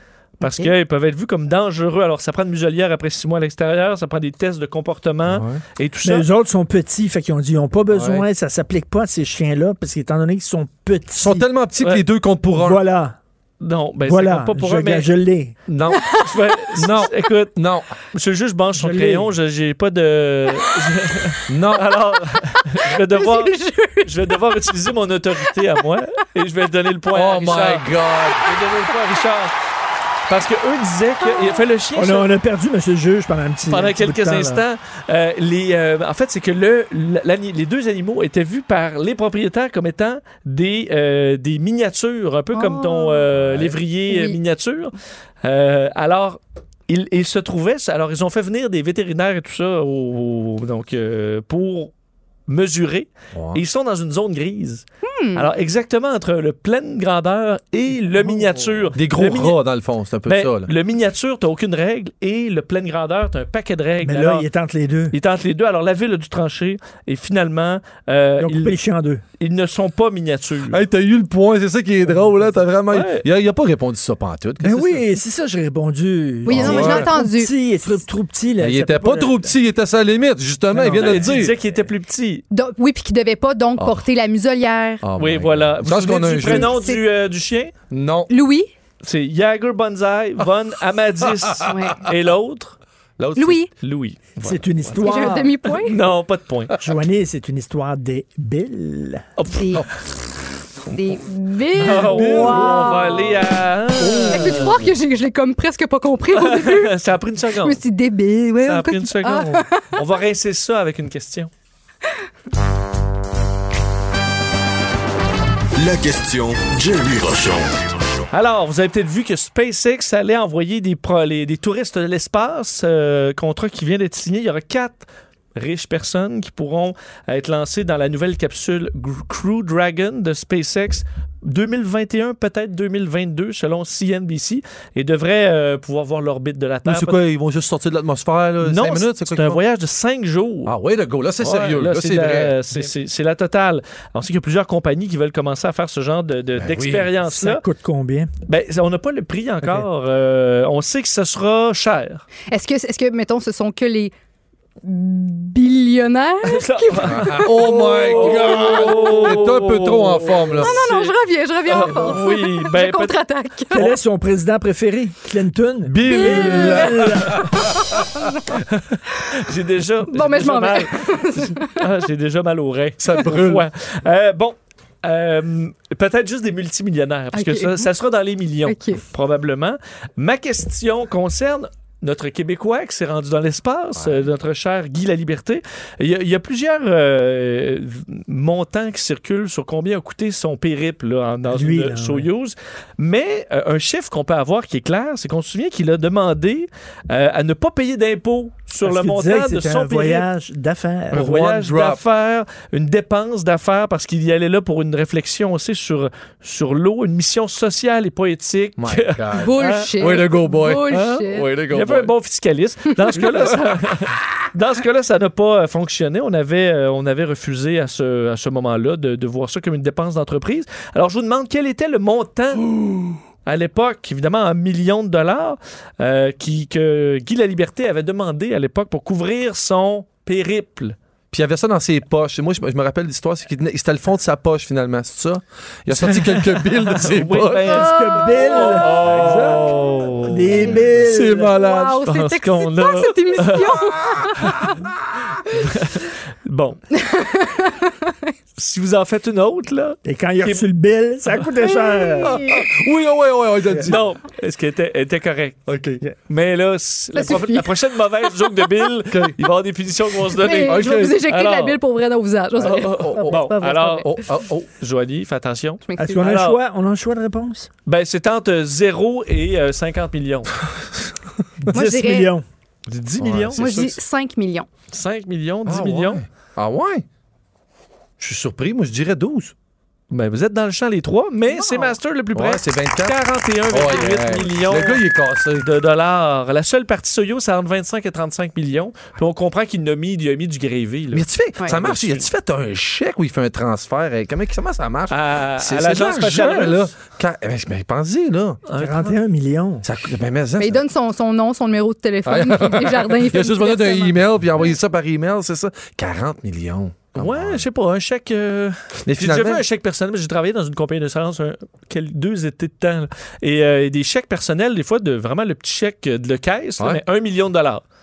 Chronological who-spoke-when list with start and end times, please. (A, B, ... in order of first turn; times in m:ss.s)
0:00.4-0:06.3 A
0:00.4-0:00.7 B
0:05.3-0:05.6 C
0:06.0-0:11.4 D
0:07.9-0:08.2 C
0:11.2-0:12.8 C
0:12.5-0:13.2 D
0:13.6-0:15.1 A
0:14.0-0:15.6 D
0:15.7-0:16.2 C
0:15.9-0:16.4 B
0:16.2-0:29.5 A
0:16.8-0:17.9 C
0:18.8-0:19.3 D
0:21.5-0:21.9 C
0:23.1-0:24.4 B
0:27.1-0:28.5 C
0:30.3-0:32.3 A
0:31.9-0:34.6 D
0:33.7-0:51.9 A
0:42.5-0:43.3 B
0:43.3-0:43.8 C
0:44.1-0:44.4 B
0:52.5-0:59.6 A
0:53.3-0:53.6 C
0:55.0-0:55.5 B
0:58.2-0:58.8 D
0:58.9-1:00.7 C
1:00.3-1:04.4 A
1:04.0-1:05.2 D
1:05.1-1:08.8 A
1:08.4-1:09.2 D
1:09.4-1:10.8 A
1:10.7-1:15.0 C
1:12.9-1:13.2 A
1:14.6-1:19.5 D
1:16.4-1:17.5 B
1:16.5-1:17.1 C
1:18.6-1:21.5 C
1:20.7-1:21.4 D
1:20.9-1:22.4 A
1:22.5-1:25.0 B
1:25.0-1:26.8 C
1:25.2-1:27.7 A
1:26.4-1:27.0 B
1:27.9-1:28.3 C
1:28.3-1:28.7 B
1:29.0-1:32.8 A
1:31.7-1:32.0 B
1:33.2-1:33.6 C
1:33.4-1:33.7 B
1:33.8-1:36.8 A
1:34.4-1:35.6 D
1:35.0-1:36.0 B
1:36.8-1:39.2 D
1:39.4-1:39.8 A
1:39.5-1:39.8 B
1:40.9-1:43.3 B
1:41.8-1:44.7 A
1:41.9-1:43.0 C
1:44.0-1:44.7 C
1:44.3-1:47.0 B
1:46.3-1:47.8 A
1:47.6-1:50.0 B
1:48.7-1:51.5 A
1:55.8-1:57.8 E
1:58.3-2:17.2 A
2:16.8-2:19.6 C
2:18.6-2:20.7 A
2:20.7-2:22.6 C
2:21.4-2:27.6 A
2:26.6-2:27.1 C
2:27.2-2:28.3 D
2:28.4-2:32.2 A
2:32.5-2:34.1 B
2:34.8-2:39.2 B
2:36.4-2:41.2 A
2:37.0-2:40.7 C
2:40.6-2:44.0 B
2:41.7-2:43.1 A
2:43.7-2:47.4 D
2:45.8-2:48.0 C
2:46.0-2:48.3 B
2:48.6-3:20.3 A
2:50.1-2:51.8 B
2:53.0-2:53.7 C
2:57.3-2:57.9 B
2:58.6-2:59.0 B
3:03.9-3:04.3 C
3:11.5-3:12.3 D
3:18.8-3:21.3 D
3:21.1-3:22.0 C
3:21.1-3:30.2 A
3:28.8-3:32.1 C
3:29.3-3:31.5 B
3:30.9-3:42.7 A
3:33.2-3:33.6 C
3:43.4-3:51.0 A
3:51.3-3:57.8 C
3:55.9-4:00.7 A
3:57.6-3:59.6 D
3:57.7-3:58.9 B
3:59.0-4:00.1 C
4:00.2-4:01.5 D
4:00.6-4:00.8 B
4:00.9-4:02.1 C
4:01.4-4:04.7 B
4:02.0-4:03.8 A
4:04.4-4:04.7 A
4:05.4-4:06.8 A
4:06.9-4:08.3 B
4:08.6-4:10.7 A
4:10.0-4:12.4 D
4:11.6-4:12.6 B
4:12.3-4:14.0 C
4:13.8-4:15.6 A
4:15.7-4:16.0 C
4:16.3-4:21.8 A
4:17.2-4:17.7 B
4:19.1-4:19.4 C
4:20.3-4:24.2 B
4:20.6-4:21.2 C
4:22.6-4:26.6 A
4:22.8-4:23.5 C
4:24.0-4:24.7 C
4:25.9-4:26.3 B
4:26.0-4:27.7 D
4:27.9-4:30.5 A
4:31.6-4:32.4 D
4:31.7-4:32.3 B
4:32.9-4:33.9 A
4:33.2-4:33.9 C
4:33.6-4:34.7 B
4:34.9-4:36.2 A
4:35.7-4:37.0 C
4:38.2-4:39.5 C
4:40.1-4:45.0 A
4:41.5-4:41.9 B
4:42.3-4:45.7 C
4:43.9-4:44.4 B
4:45.6-4:52.2 A
4:51.1-4:58.6 C
4:55.1-4:56.9 A
4:58.7-4:59.2 A
4:58.8-4:59.8 D
4:59.8-5:00.8 C
5:00.6-5:04.6 B
5:02.2-5:07.6 C
5:07.2-5:17.8 A
5:09.1-5:09.6 C